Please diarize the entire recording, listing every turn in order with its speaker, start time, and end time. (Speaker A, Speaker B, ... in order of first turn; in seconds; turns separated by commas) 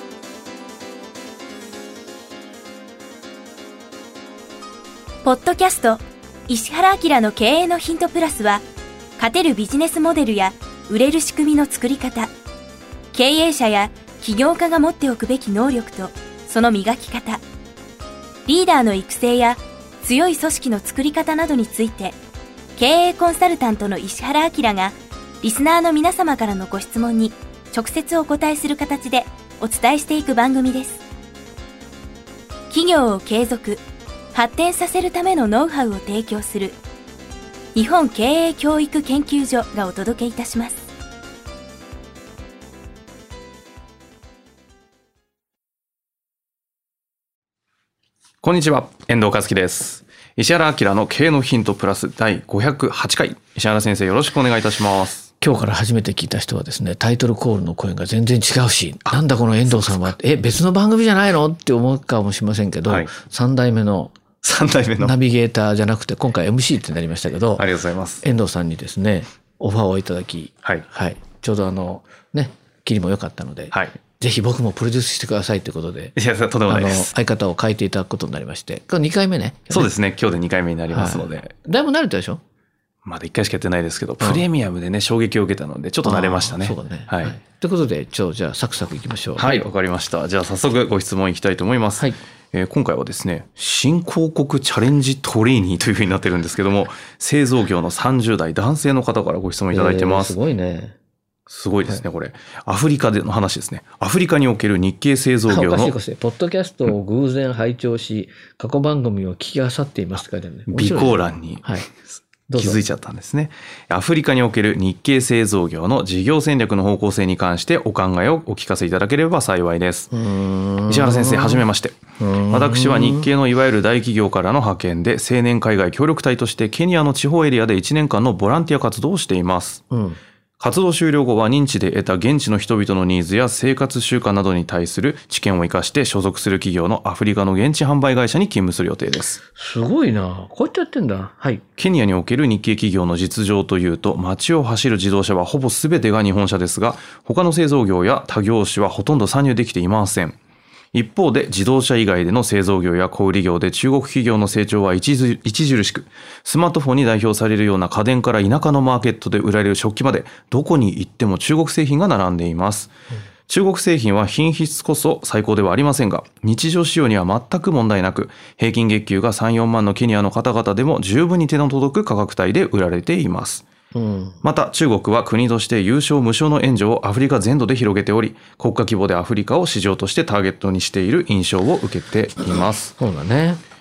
Speaker A: 5.2-8.7, Speaker A: 9.2-12.3, Speaker A: 13.1-17.4, Speaker A: 18.5-22.2, Speaker A: 22.8-31.0, Speaker A: 32.7-33.8, Speaker A: 34.3-36.8, Speaker A: 37.8-40.8, Speaker B: 48.4-55.3, Speaker C: 55.4-64.2, Speaker B: 59.1-60.1, Speaker B: 64.4-65.2, Speaker C: 65.0-67.7, Speaker B: 67.6-68.2, Speaker C: 68.2-76.2, Speaker B: 76.2-77.1, Speaker C: 76.7-79.9, Speaker B: 79.7-81.5, Speaker C: 80.9-82.4, Speaker B: 83.0-87.4, Speaker C: 84.2-84.5, Speaker C: 86.0-89.7, Speaker B: 89.4-100.4, Speaker C: 99.7-101.0, Speaker B: 101.5-106.0, Speaker C: 105.5-111.9, Speaker B: 110.7-111.8, Speaker C: 112.5-112.8, Speaker B: 112.5-120.1, Speaker C: 120.1-121.7, Speaker B: 120.9-122.0, Speaker C: 122.2-123.3, Speaker B: 122.5-129.8, Speaker C: 129.9-130.2, Speaker B: 130.6-139.4, Speaker C: 139.5-141.7, Speaker B: 141.8-150.4, Speaker B: 150.9-162.9, Speaker B: 163.5-173.7, Speaker C: 173.9-174.4, Speaker B: 174.4-182.9, Speaker C: 183.0-183.6